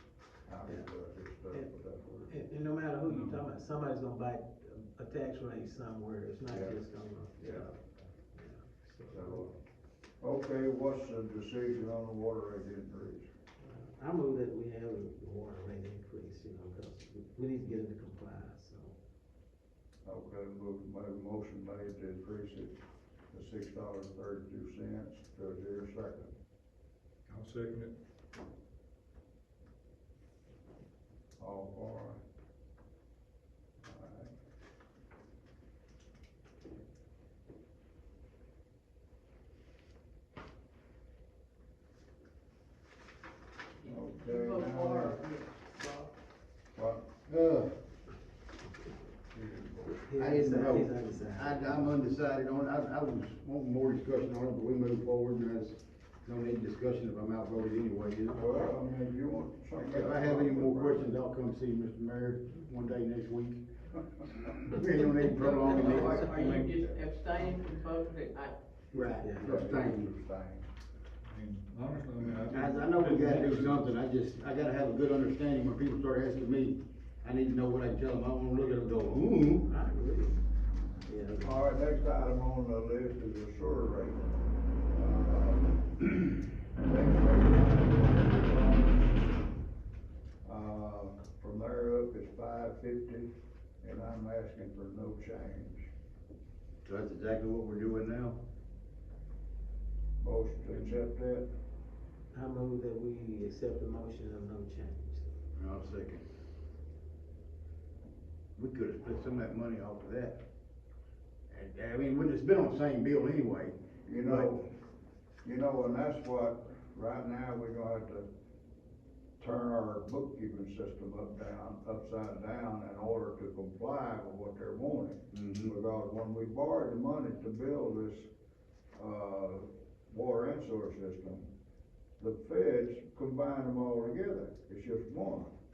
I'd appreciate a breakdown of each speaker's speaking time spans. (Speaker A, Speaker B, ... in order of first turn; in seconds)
Speaker A: 0.5-2.3, 6.5-6.8, 7.4-7.7, 9.1-9.6, 10.2-13.3, 20.0-22.7, 23.3-26.3, 31.4-32.2, 33.8-34.3, 43.8-45.2, 46.7-47.1, 49.4-49.8, 58.3-61.1, 65.6-67.5, 68.9-70.7, 81.3-84.2, 84.9-89.3, 90.4-93.3, 93.8-95.9, 100.2-101.5, 114.0-114.7, 115.4-118.2, 119.4-128.3, 128.9-131.5, 132.2-135.5
Speaker B: 2.3-9.5, 13.6-18.9, 49.9-52.0, 69.2-69.6, 78.6-80.4, 81.0-81.5, 102.3-105.3
Speaker C: 3.0-3.4, 27.3-27.9, 65.9-66.8, 71.3-73.8
Speaker D: 43.9-46.1, 65.5-68.5
Speaker E: 47.3-47.7, 50.1-58.7, 59.7-63.6, 64.6-66.7, 68.9-70.1, 72.5-79.7, 96.8-98.4, 105.5-106.2, 108.5-110.4, 111.5-114.5, 125.3-125.7